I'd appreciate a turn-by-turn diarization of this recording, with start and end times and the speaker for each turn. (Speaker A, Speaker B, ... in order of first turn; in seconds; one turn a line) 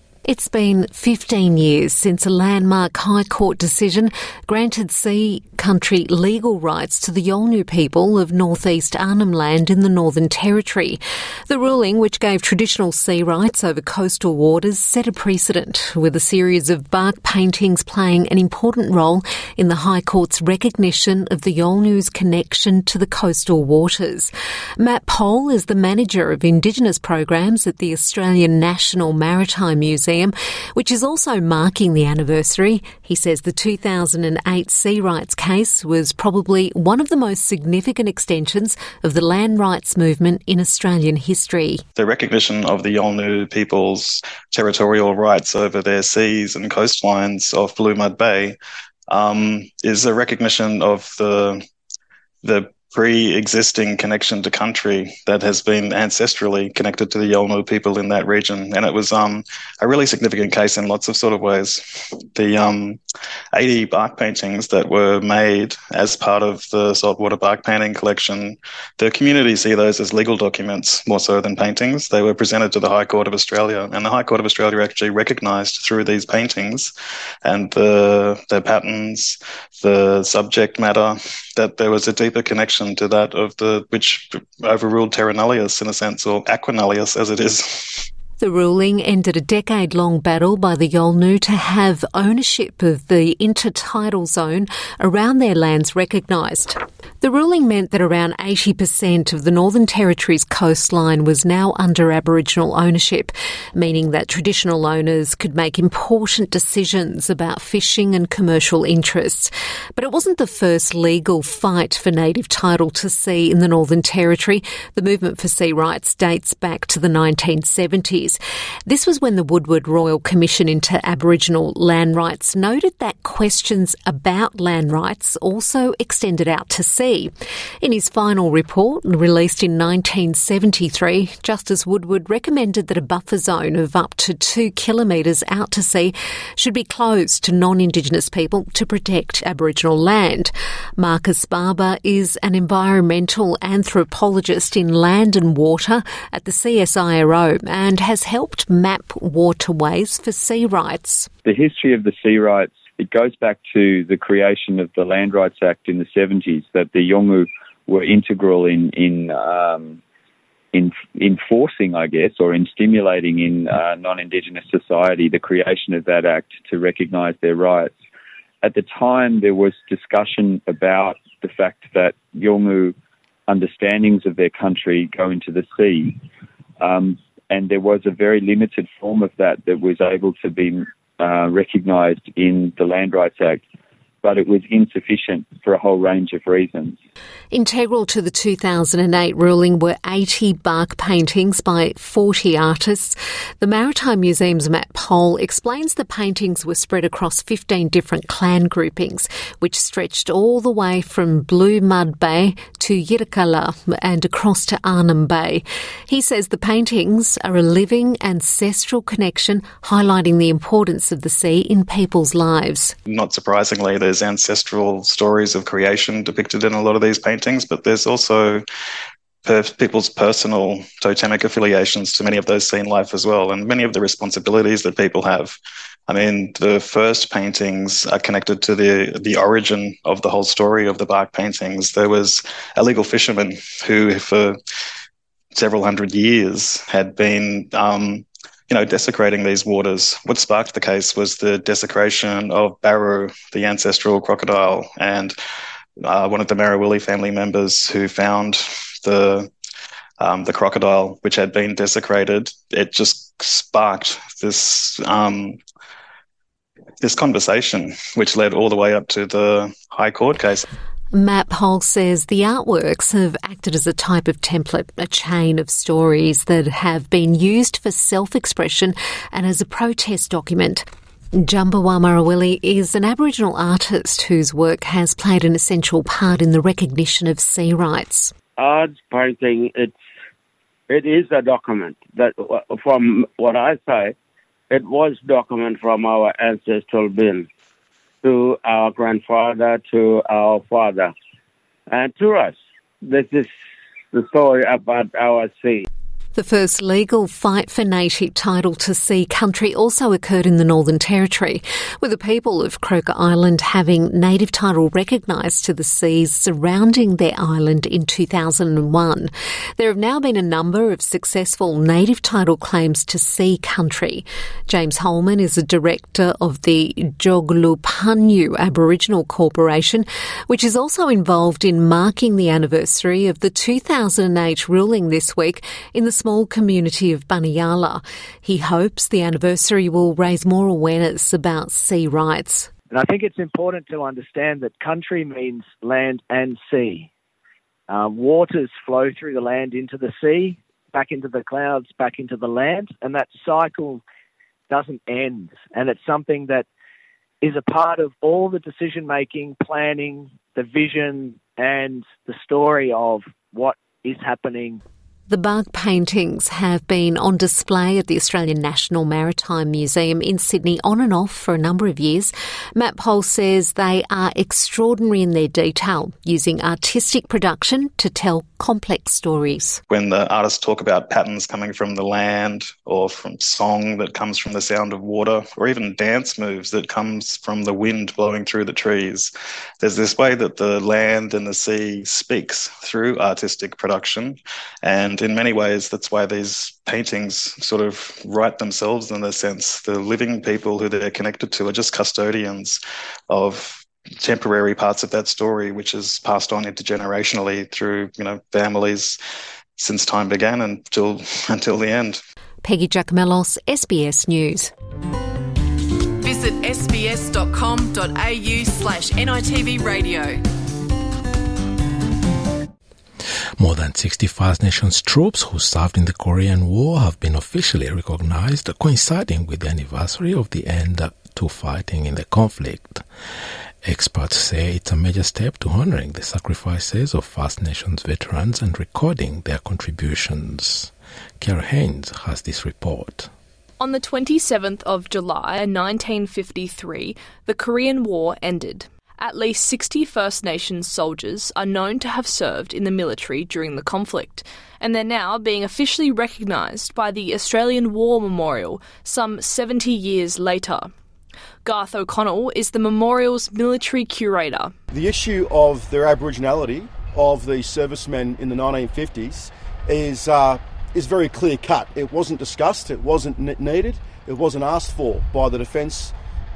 Speaker A: 0.2-41.8
Speaker B: 42.0-48.6
Speaker B: 49.1-51.6
Speaker B: 52.4-63.0
Speaker B: 63.5-76.9
Speaker B: 77.4-88.1
Speaker A: 88.4-151.3
Speaker C: 151.4-160.0
Speaker C: 160.7-167.9
Speaker C: 168.6-172.9
Speaker C: 173.5-176.2
Speaker C: 176.8-183.6
Speaker C: 184.2-187.0
Speaker A: 187.5-212.9
Speaker B: 213.1-218.6
Speaker B: 219.4-225.6
Speaker B: 226.1-234.6
Speaker B: 235.5-245.3
Speaker B: 246.0-249.5
Speaker B: 250.2-255.6
Speaker B: 257.0-260.6
Speaker A: 261.1-278.3
Speaker D: 278.6-280.0
Speaker D: 280.9-284.1
Speaker D: 284.7-287.5
Speaker D: 288.2-291.1
Speaker D: 291.9-293.5
Speaker D: 294.1-295.8
Speaker A: 296.3-332.7
Speaker E: 332.9-337.1
Speaker E: 337.9-344.0
Speaker E: 344.7-346.6
Speaker E: 347.4-354.8
Speaker A: 355.3-369.8
Speaker B: 369.9-399.2
Speaker B: 399.8-402.2
Speaker A: 402.6-404.7
Speaker F: 406.2-410.4
Speaker G: 413.6-423.0
Speaker G: 423.8-433.3
Speaker H: 433.8-450.9
Speaker H: 451.6-454.7
Speaker I: 454.9-466.1